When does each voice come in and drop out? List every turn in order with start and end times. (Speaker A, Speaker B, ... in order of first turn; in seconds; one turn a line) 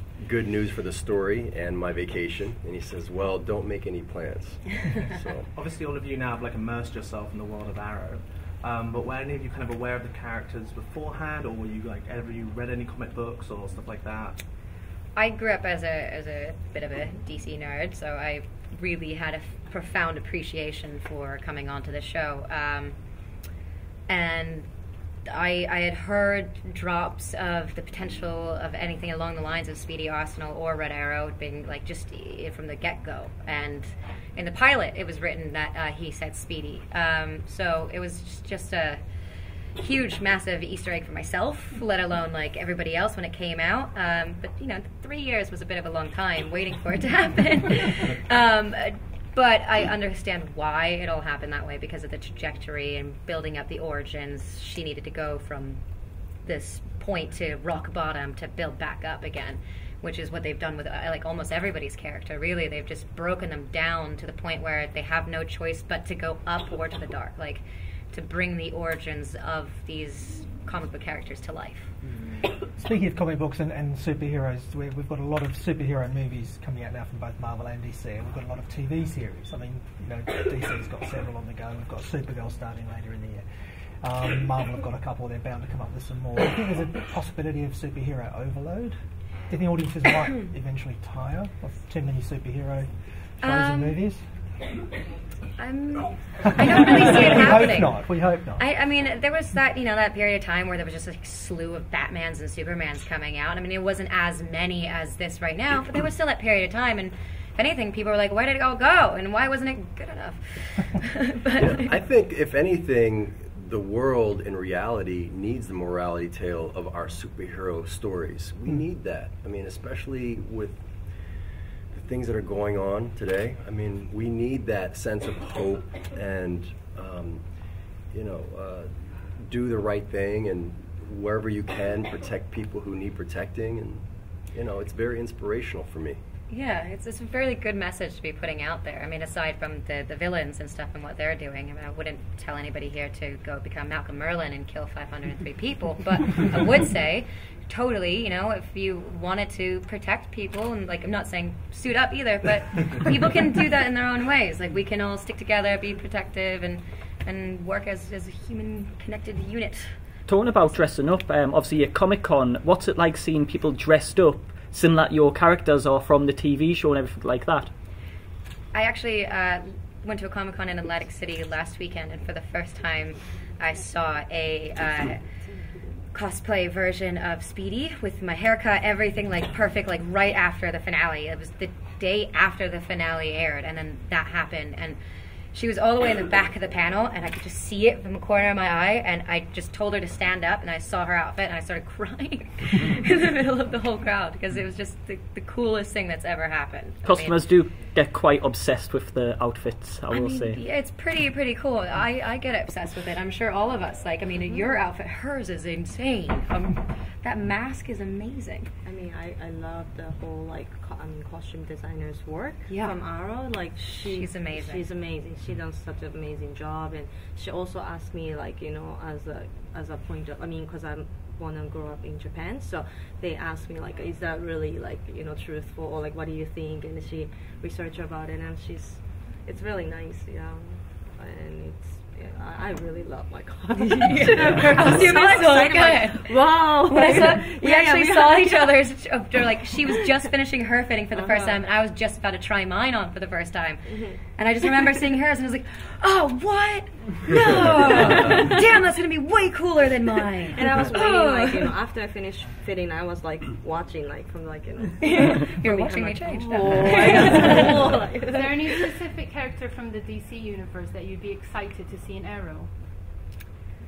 Speaker A: 0.2-5.5
Speaker B: 5.5-14.4
Speaker C: 15.2-22.9
Speaker C: 24.1-24.7
Speaker C: 25.2-39.0
Speaker C: 39.8-55.8
Speaker C: 56.4-71.9
Speaker D: 72.7-83.4
Speaker D: 84.0-89.0
Speaker D: 89.5-94.2
Speaker C: 93.4-94.0
Speaker C: 95.6-98.0
Speaker D: 96.5-98.6
Speaker C: 98.6-111.8
Speaker A: 111.5-120.8
Speaker A: 121.9-127.4
Speaker A: 128.1-136.2
Speaker C: 136.5-159.9
Speaker E: 160.3-167.7
Speaker C: 168.7-175.2
Speaker C: 176.1-185.0
Speaker C: 185.5-197.4
Speaker E: 197.0-200.6
Speaker C: 200.1-208.7
Speaker F: 208.8-238.8
Speaker C: 212.7-213.0
Speaker C: 213.7-214.8
Speaker C: 233.8-251.7
Speaker F: 241.1-241.6
Speaker F: 243.8-244.2
Speaker F: 247.8-248.4
Speaker F: 250.5-258.9
Speaker C: 255.0-257.9
Speaker G: 257.2-257.5
Speaker G: 258.3-262.7